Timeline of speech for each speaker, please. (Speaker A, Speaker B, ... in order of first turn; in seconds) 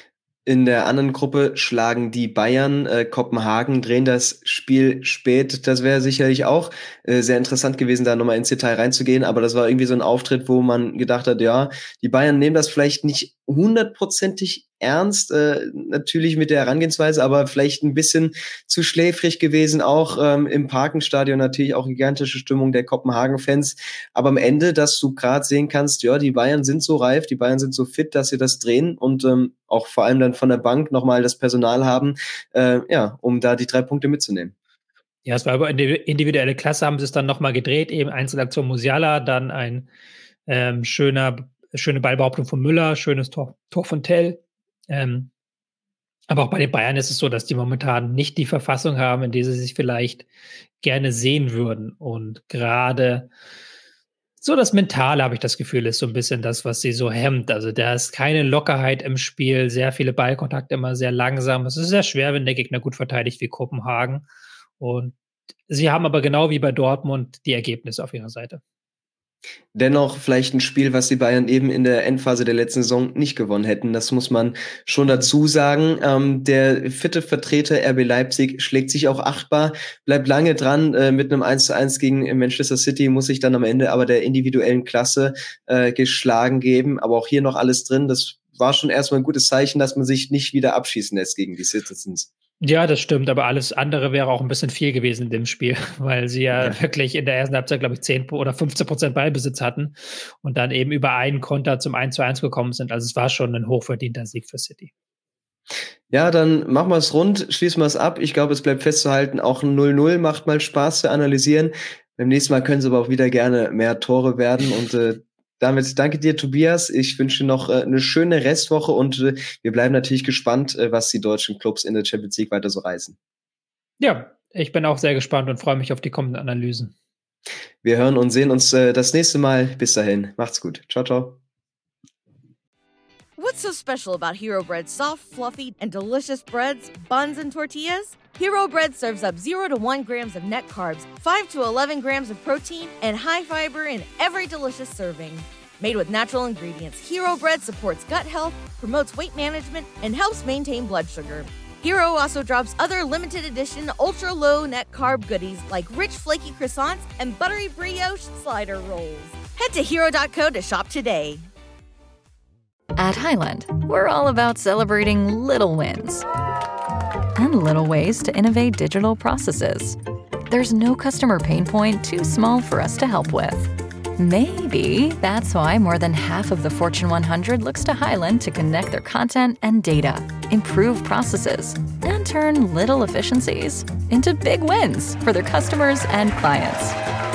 Speaker A: 0.5-34.5, 69.7-92.3, 106.1-123.2, 127.8-131.4
Speaker B: 35.2-39.9, 40.5-45.3, 46.3-50.2, 50.8-53.3, 54.4-64.2, 64.8-65.1, 65.7-68.6, 92.6-104.9, 124.0-126.9
Speaker C: 133.4-161.5
Speaker D: 163.0-166.2, 167.4-170.0, 170.5-186.9